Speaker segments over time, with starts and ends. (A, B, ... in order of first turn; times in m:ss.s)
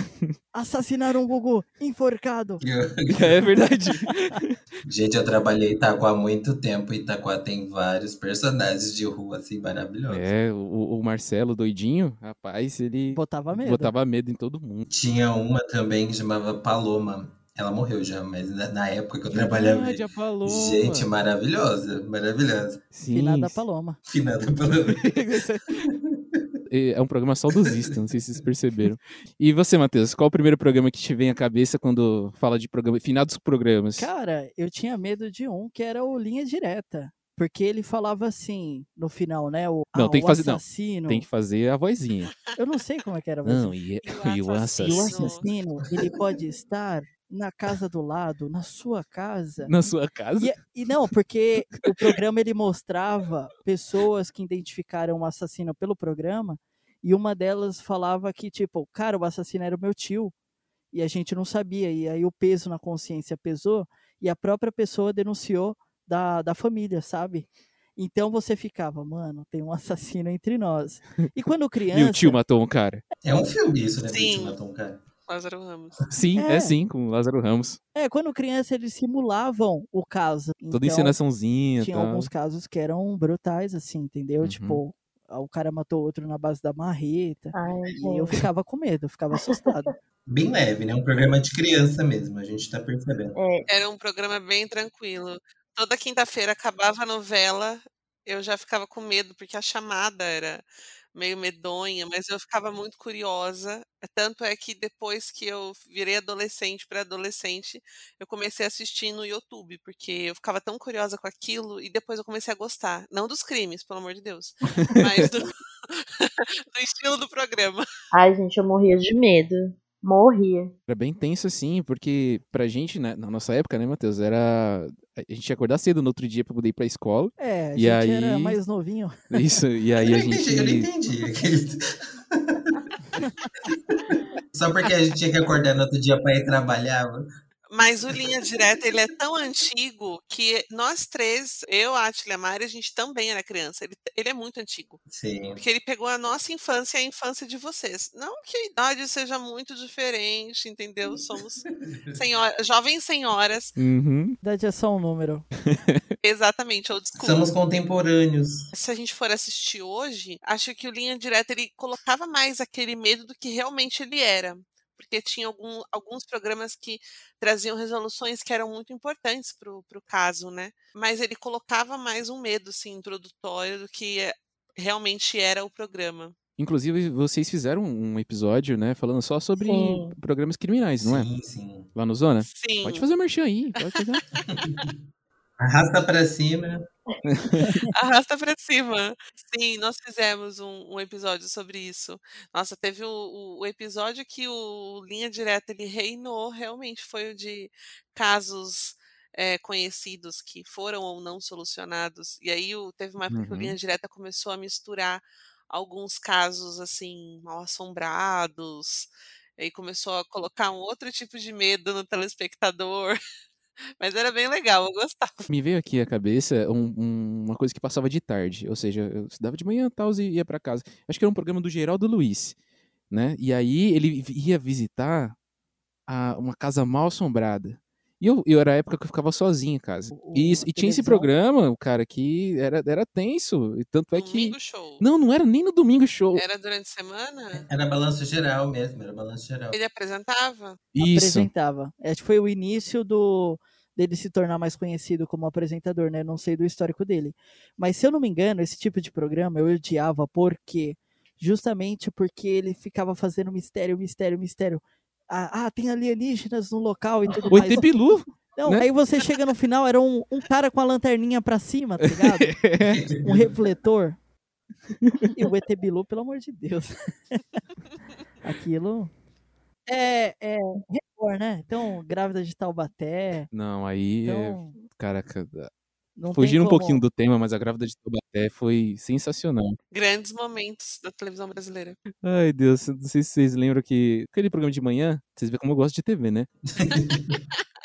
0:00.5-0:02.6 A
0:02.6-0:03.4 B
0:03.1-0:04.6 C
0:04.8-0:10.3 B
0:10.1-0:14.9 C
0:13.1-0:14.0 A
0:14.9-0:22.8 B
0:19.3-0:21.1 C
0:22.9-0:23.6 C
0:23.1-0:24.0 A
0:24.1-0:25.1 B
0:24.9-0:25.8 C
0:25.8-0:26.5 B
0:26.7-0:34.1 C
0:27.5-0:28.0 B
0:34.0-0:41.3 A
0:40.0-0:42.3 C
0:42.6-0:43.8 A
0:43.4-0:45.4 C
0:44.0-0:45.5 D
0:44.8-1:00.3 A
0:49.6-0:50.6 C
1:00.9-1:12.4 A
1:11.9-1:13.0 C
1:13.2-1:15.0 B
1:14.1-1:14.6 D
1:15.3-1:16.0 D
1:16.1-1:17.8 C
1:16.4-1:16.8 A
1:18.0-1:21.2 A
1:20.7-1:22.3 C
1:21.8-1:29.9 A
1:24.4-1:24.8 C
1:27.5-1:28.4 E
1:30.3-1:33.4 B
1:33.4-1:33.7 E
1:33.7-1:40.6 D
1:41.2-1:57.9 D
1:54.7-1:55.3 C
1:58.1-2:00.8 E
2:00.9-2:08.6 C
2:07.4-2:09.4 A
2:09.3-2:10.9 C
2:10.0-2:12.8 B
2:13.7-2:17.3 B
2:17.7-2:25.0 D
2:25.1-2:25.6 B
2:25.6-2:33.8 D
2:31.8-2:32.2 B
2:33.8-2:34.4 C
2:34.4-2:35.5 A
2:35.6-2:36.1 C
2:36.2-2:37.5 D
2:37.2-2:38.7 B
2:38.7-2:56.4 D
2:56.6-3:01.3 C
2:59.6-3:00.2 E
3:01.0-3:01.9 B
3:01.9-3:04.2 C
3:02.5-3:03.1 D
3:03.8-3:04.4 D
3:04.5-3:04.9 B
3:05.6-3:06.8 B
3:07.2-3:07.8 C
3:07.9-3:33.2 D
3:23.3-3:23.8 C
3:34.0-3:35.5 D
3:35.5-3:42.6 C
3:43.1-3:45.4 C
3:46.1-3:56.4 C
3:50.1-3:51.3 A
3:54.1-3:55.0 D
3:56.3-3:57.6 D
3:57.6-3:59.8 B
3:59.7-4:00.8 D
4:00.9-4:01.5 C
4:01.0-4:22.6 A
4:17.5-4:18.9 C
4:22.0-4:23.1 C
4:22.9-4:23.4 B
4:23.2-4:24.2 A
4:25.0-4:25.5 C
4:25.3-4:27.6 A
4:28.4-4:29.1 A
4:29.9-4:33.5 A
4:33.5-4:35.7 C
4:34.2-4:34.8 A
4:36.2-4:37.0 A
4:36.3-4:39.8 C
4:39.9-4:42.0 D
4:42.1-4:46.5 C
4:46.8-4:47.4 B